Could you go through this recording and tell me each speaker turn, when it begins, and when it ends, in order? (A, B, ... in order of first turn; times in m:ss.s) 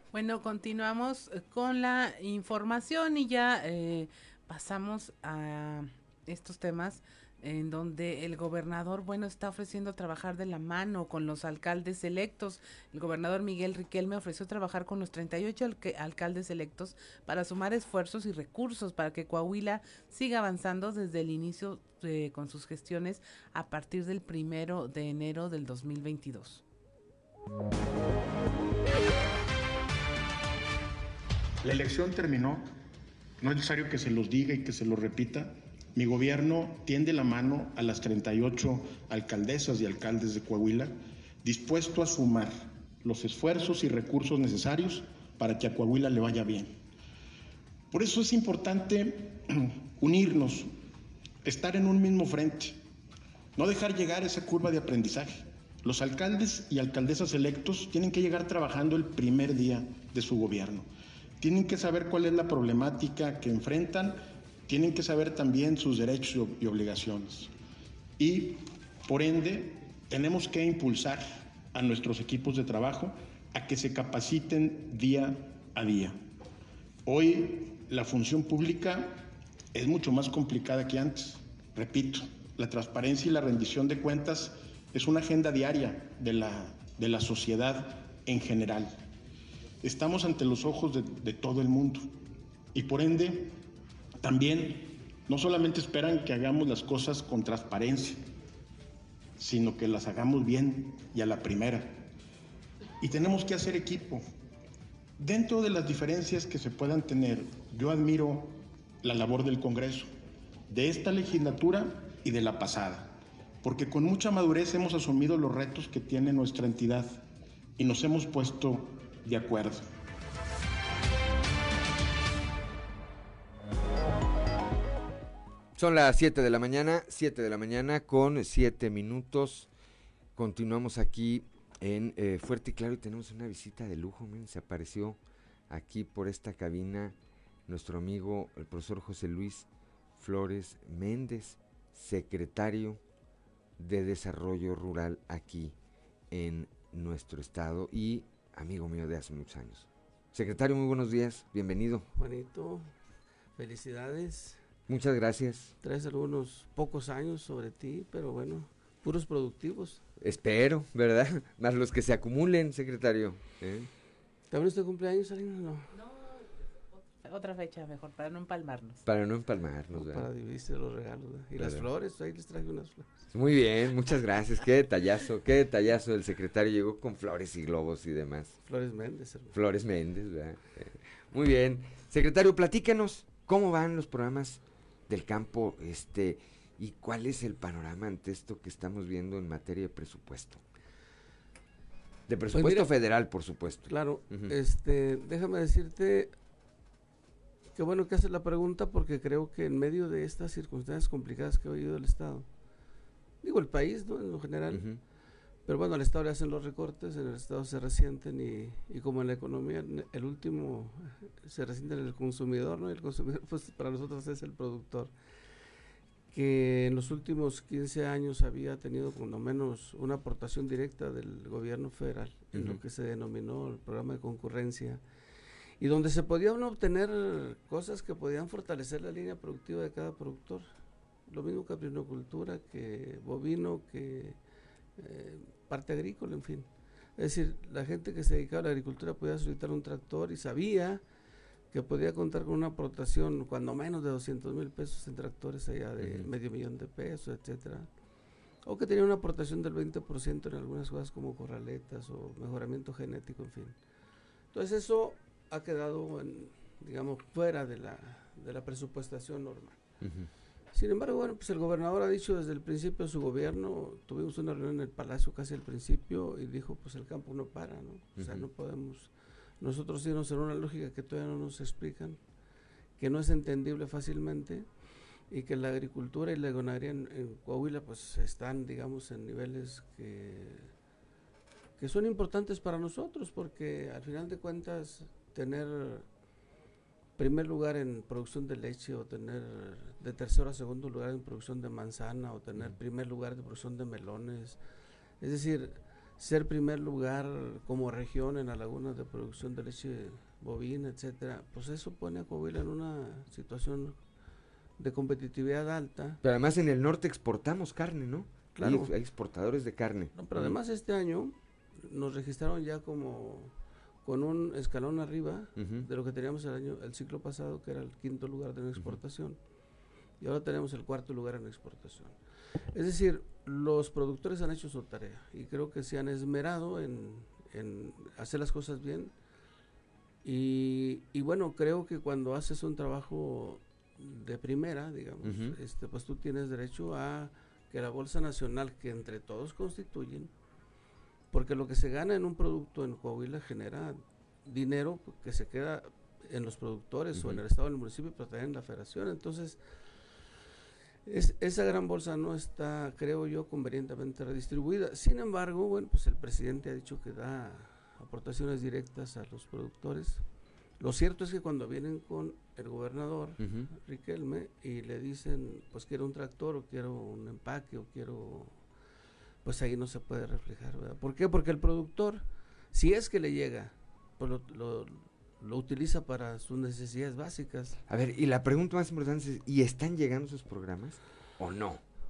0:00.1-0:26.6 A
0:31.6-0:32.7 B
0:33.4-0:46.7 B
0:47.9-0:50.7 B
0:51.4-0:52.8 B
0:53.6-1:00.9 B
1:01.4-1:07.5 B
1:08.2-1:16.2 B
1:17.0-1:29.0 B
1:29.8-1:32.2 B
1:32.7-1:33.6 B
1:34.2-1:38.2 B
1:39.4-1:42.1 B
1:43.0-1:44.2 B
1:45.2-1:50.1 B
1:50.7-1:57.2 B
1:57.8-1:59.9 B
2:05.8-2:09.7 C
2:10.4-2:17.2 C
2:17.7-2:23.0 C
2:23.8-2:25.8 C
2:26.3-2:32.0 C
2:32.1-2:32.9 D
2:33.6-2:34.6 D
2:34.9-2:35.7 C
2:35.8-2:40.0 D
2:40.2-2:43.9 C
2:44.5-2:45.9 D
2:47.2-2:49.0 A
2:49.0-2:50.2 C
2:49.9-2:53.3 D
2:53.3-2:58.6 C
2:58.6-2:59.6 D
2:59.5-3:10.6 C
3:12.3-3:14.5 C
3:12.5-3:12.9 D
3:13.9-3:16.3 D
3:17.8-3:22.5 D
3:23.4-3:24.9 D
3:24.7-3:25.0 C
3:25.6-3:35.1 D
3:36.3-3:45.0 D
3:42.5-3:42.8 C
3:45.8-3:50.7 D
3:51.3-3:54.4 D
3:55.0-4:01.0 D
4:01.7-4:07.9 D
4:08.6-4:13.8 D
4:14.5-4:19.8 D
4:20.0-4:20.3 C
4:20.7-4:32.2 D
4:28.2-4:28.5 C
4:33.0-4:40.7 D
4:41.8-4:46.1 D
4:47.2-4:54.6 D
4:55.2-5:04.0 D
5:04.8-5:06.2 D
5:06.2-5:10.6 C
5:08.5-5:08.9 D
5:10.1-5:19.4 D
5:15.6-5:15.9 C
5:20.2-5:29.1 D
5:30.2-5:40.3 D
5:35.2-5:35.5 C
5:41.3-5:49.6 D
5:51.0-6:00.2 D
6:00.8-6:08.6 D
6:03.4-6:03.7 C
6:09.4-6:17.8 D
6:17.9-6:21.8 C